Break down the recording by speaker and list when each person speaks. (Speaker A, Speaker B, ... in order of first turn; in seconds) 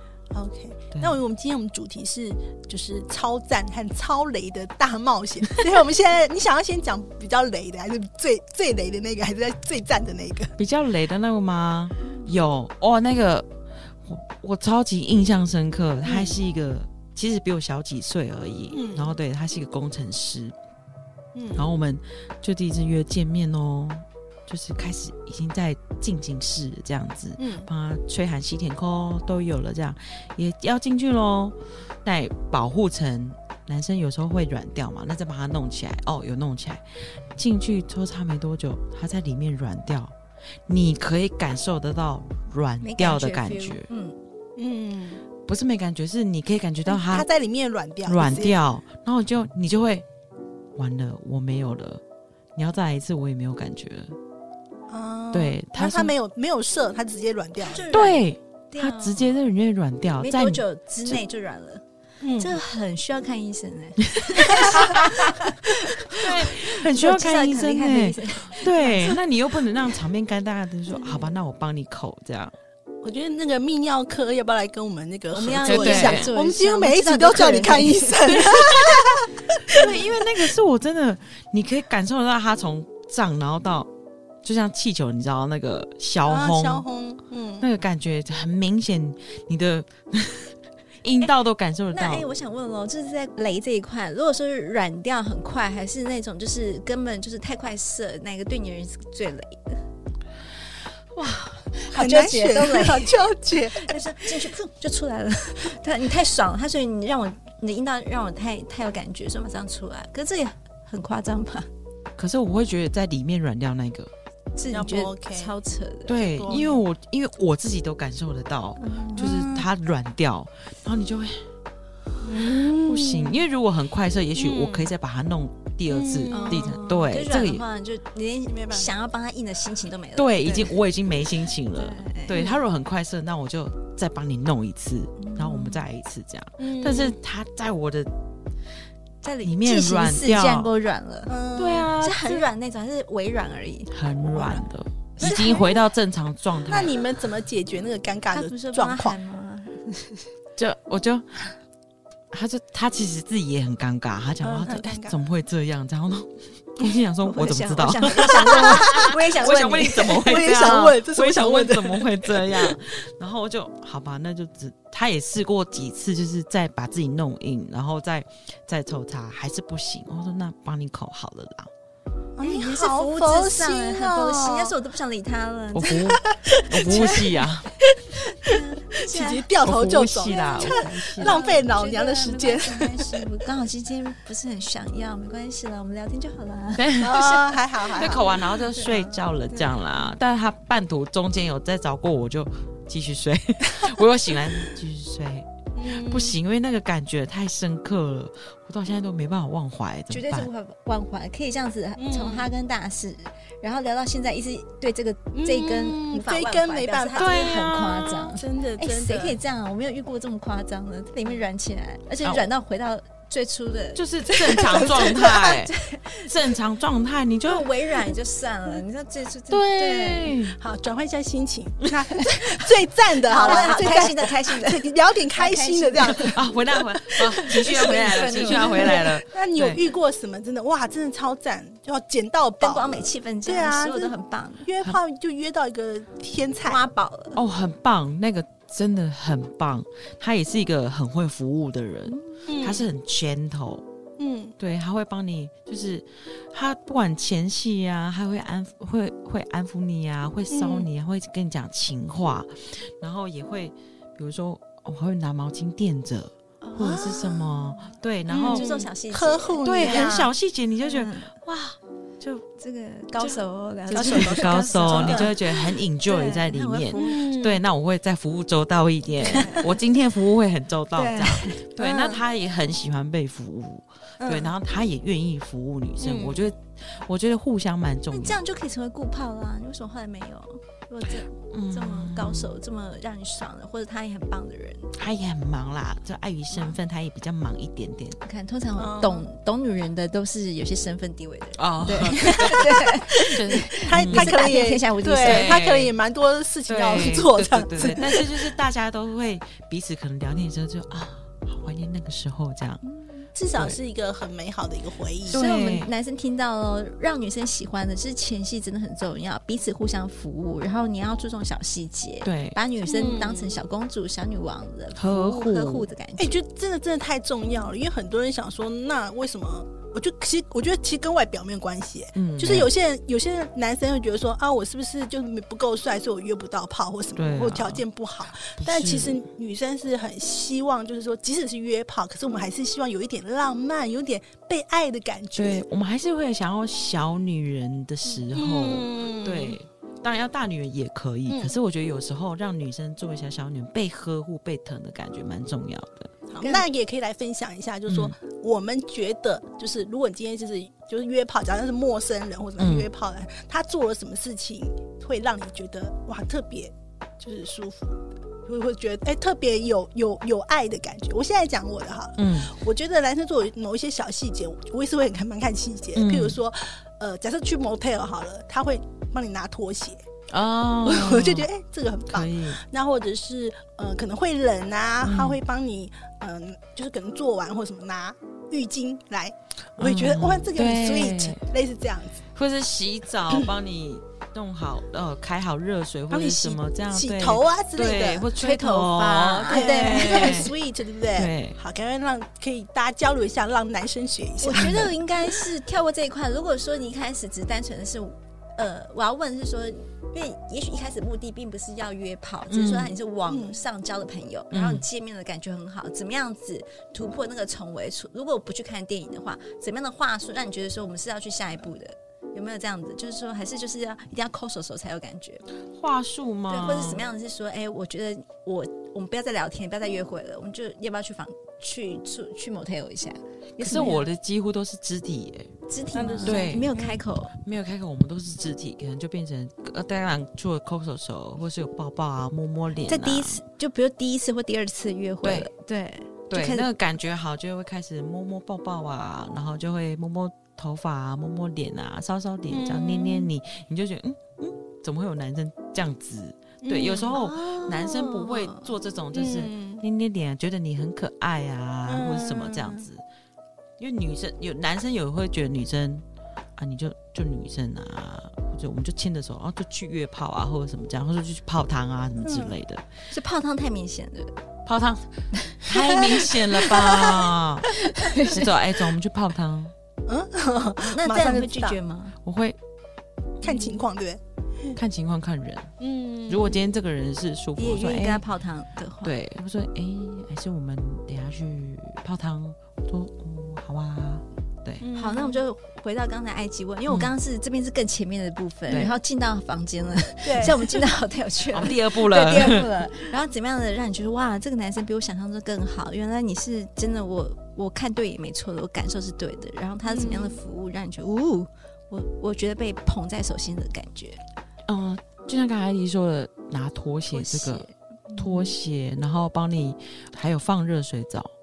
Speaker A: 0.3-10.5, 16.1-16.4, 18.7-19.1, 21.3-21.7, 27.4-27.7, 44.6-45.2, 46.9-48.5, 54.9-57.9, 62.2-62.6, 64.5-64.8, 73.0-80.2, 86.2-87.7, 101.9-104.3, 114.7-115.5, 116.2-116.8, 119.2-119.7, 122.2-123.4, 124.3-124.9, 125.9-126.8, 128.5-128.9, 136.6-137.2, 141.3-142.0, 145.2-145.8, 146.7-149.2, 154.4-155.2, 158.1-159.1, 160.0-162.8, 172.4-174.7, 176.2-177.2, 178.5-183.3, 187.0-188.3, 195.8-196.3, 202.0-202.5, 205.3-207.3, 208.3-209.4, 220.6-226.4, 227.5-236.8, 242.5-242.8, 244.2-244.5, 250.5-250.9, 256.8-257.8, 258.3-260.3, 263.2-265.3, 266.9-267.6, 269.3-269.6, 271.8-272.2, 274.2-274.5, 276.0-276.5, 288.8-289.3, 292.3-292.5, 293.8-298.5, 303.3-305.4, 312.8-313.6, 316.2-335.6, 338.3-339.6, 341.3-341.5, 346.3-370.0, 370.8-382.2, 386.1-388.3, 389.5-394.9, 403.3-403.6, 425.9-427.0, 442.5-443.3, 446.6-447.2, 449.1-449.8, 451.9-452.9, 462.2-462.6, 470.1-471.8, 473.4-474.7, 475.8-476.6, 484.8-485.4, 490.2-490.8, 499.9-500.4
Speaker B: 10.6-20.6, 21.5-40.1, 40.6-43.9, 45.5-47.3, 48.0-50.0, 50.7-52.0, 52.5-54.2, 55.3-56.1, 57.9-61.2, 64.2-65.5, 66.1-72.5, 75.7-76.3, 78.5-79.1, 79.7-83.9, 84.4-86.8, 87.6-92.3, 112.2-114.1, 116.1-121.5, 122.8-127.6, 130.2-138.1, 139.4-140.7, 141.6-142.4, 143.9-147.0, 150.6-151.6, 152.3-171.7, 175.7-177.7, 179.6-181.4, 186.8-187.3, 187.9-200.5, 207.2-208.3, 213.9-217.7, 219.5-220.6, 223.5-223.7, 226.1-229.8, 237.3-243.8, 244.6-258.7, 259.6-261.4, 263.9-278.4, 281.5-282.6, 284.9-288.2, 291.6-294.4, 295.2-295.9, 296.7-302.8, 305.3-305.9, 312.2-312.6, 314.9-315.9, 322.1-322.7, 327.1-327.8, 328.6-329.2, 335.4-346.1, 347.9-348.1, 352.6-352.9, 362.2-362.6, 365.9-366.4, 370.3-371.5, 372.1-372.6, 375.0-375.4, 379.8-381.4, 382.3-390.5, 391.1-391.6, 402.5-402.9, 404.5-404.8, 415.7-417.1, 423.6-425.5, 426.2-426.7, 427.3-433.4, 435.2-435.5, 436.3-453.0, 453.8-456.0, 456.6-462.8, 464.6-465.1, 465.6-467.7, 468.3-469.7, 472.2-472.6, 474.7-475.7, 476.3-478.2, 479.0-484.8, 486.9-487.1, 488.7-488.9, 491.5-492.7, 504.7-507.6, 508.1-511.3
Speaker C: 42.8-44.2, 57.6-59.3, 60.2-61.8, 62.4-69.2, 75.3-78.5, 91.9-99.8, 101.2-103.2, 103.7-111.7, 114.5-116.7, 118.8-119.3, 126.3-130.8, 131.7-132.5, 135.2-135.8, 139.2-141.3, 142.0-143.9, 145.2-145.6, 148.3-150.3, 157.2-160.5, 172.4-176.1, 176.8-177.2, 178.4-179.5, 180.2-189.8, 200.1-216.3, 217.4-220.4, 222.4-222.7, 223.2-226.4, 227.1-229.1, 232.6-234.7, 236.7-237.4, 242.1-242.5, 256.6-257.1, 258.3-260.1, 260.8-261.4, 262.2-267.2, 269.2-269.7, 270.9-271.6, 278.1-284.9, 288.2-295.6, 302.9-303.2, 305.3-316.3, 346.4-346.6, 388.4-390.5, 394.4-415.4, 416.5-424.1, 425.7-427.3, 432.9-436.7, 447.1-448.7, 463.1-464.3, 465.4-468.5, 470.8-472.2, 477.6-479.1, 484.9-504.2, 507.1-508.5